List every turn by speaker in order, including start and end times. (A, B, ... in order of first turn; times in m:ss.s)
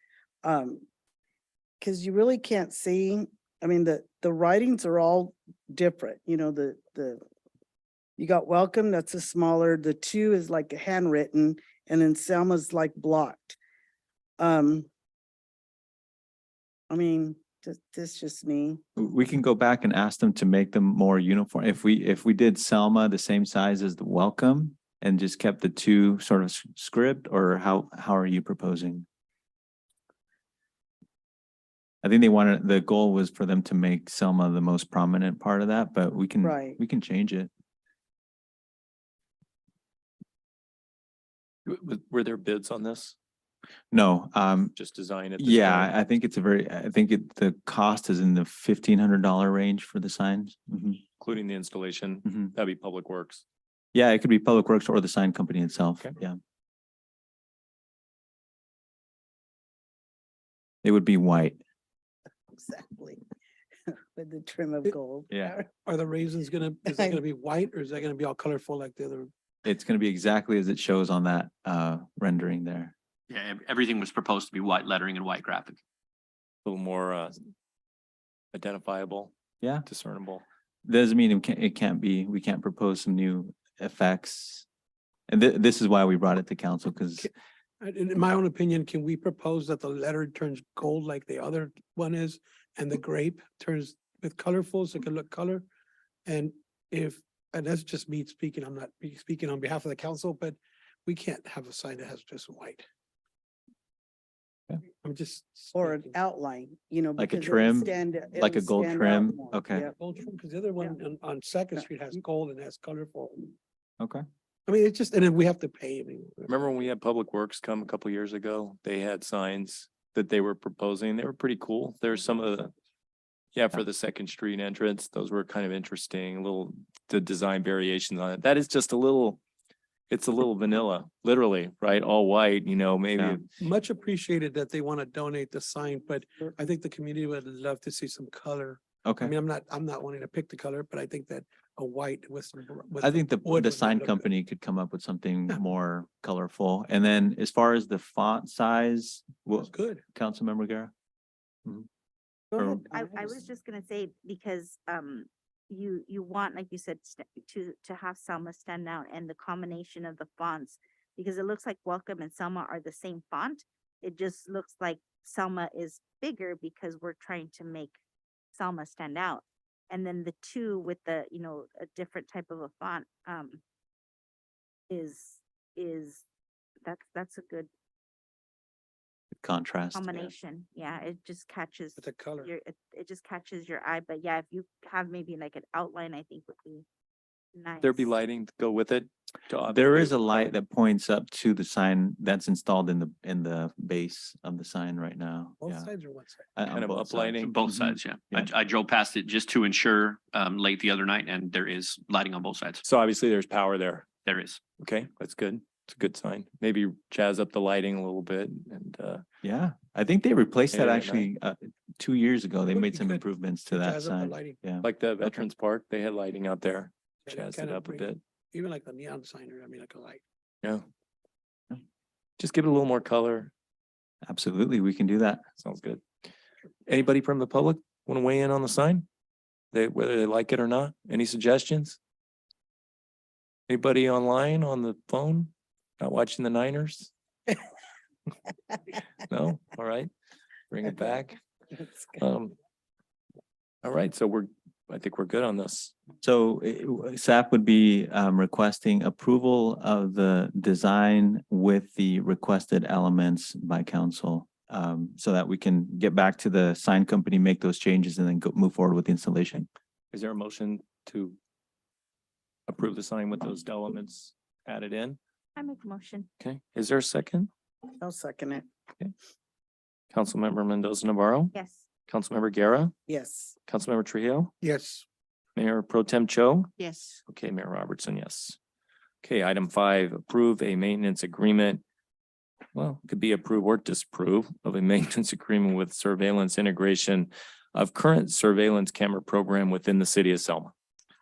0:00.4-0:00.8 A
0:01.8-0:07.2 A
0:08.2-0:13.6 A
0:14.4-0:14.9 A
0:16.9-0:18.8 A
0:19.0-0:29.0 B
0:32.0-0:37.5 B
0:36.4-0:36.8 A
0:41.6-0:43.1 C
0:43.9-0:44.7 B
0:44.7-0:45.9 C
0:45.4-0:51.0 B
0:51.2-0:53.4 C
0:53.9-0:56.4 B
1:00.8-1:01.6 B
1:02.5-1:03.2 A
1:04.1-1:05.7 A
1:05.3-1:05.6 B
1:05.8-1:09.3 D
1:06.9-1:07.2 A
1:09.6-1:12.9 B
1:13.3-1:15.8 E
1:16.6-1:17.4 C
1:18.5-1:19.3 C
1:19.6-1:19.8 B
1:19.8-1:20.4 C
1:20.8-1:24.6 B
1:25.3-1:27.3 B
1:27.8-1:35.6 D
1:36.2-1:42.8 D
1:45.0-1:46.1 D
1:45.7-1:49.9 A
1:47.2-1:49.8 B
1:49.8-1:53.5 D
1:54.7-1:56.5 D
1:56.5-2:02.7 C
2:03.5-2:09.4 C
2:10.1-2:13.5 C
2:13.1-2:13.4 B
2:13.6-2:24.3 D
2:19.0-2:19.3 B
2:23.0-2:30.9 B
2:29.6-2:30.0 D
2:32.5-2:33.3 A
2:32.6-2:32.8 B
2:32.8-2:48.0 F
2:48.5-2:53.6 F
2:54.9-2:56.2 F
2:56.8-2:57.7 F
2:59.3-3:00.3 B
2:59.9-3:06.8 F
3:02.0-3:02.5 D
3:07.5-3:08.1 F
3:07.8-3:10.5 C
3:09.7-3:15.9 B
3:15.6-3:16.5 D
3:16.6-3:18.5 B
3:16.7-3:17.5 C
3:17.4-3:22.8 E
3:22.8-3:24.1 C
3:24.2-3:24.6 E
3:24.8-3:29.2 C
3:29.4-3:35.4 B
3:30.7-3:31.3 C
3:32.7-3:34.6 D
3:34.8-3:38.2 C
3:37.2-3:40.2 D
3:42.4-3:43.5 C
3:44.2-3:45.4 B
3:45.6-3:46.0 C
3:46.8-3:49.0 C
3:49.7-3:52.0 C
3:53.7-3:57.1 C
3:59.3-4:00.1 C
4:00.7-4:01.4 C
4:02.2-4:02.5 C
4:03.8-4:05.9 C
4:06.2-4:19.7 B
4:20.1-4:21.4 C
4:22.7-4:25.2 C
4:25.6-4:26.3 F
4:26.4-4:27.5 C
4:28.0-4:28.6 A
4:30.1-4:31.5 C
4:31.5-4:31.8 F
4:32.1-4:32.9 C
4:33.1-4:33.5 A
4:33.7-4:34.5 C
4:34.6-4:35.0 D
4:35.6-4:36.7 C
4:37.3-4:38.6 C
4:39.2-4:41.8 C
4:42.7-4:50.7 C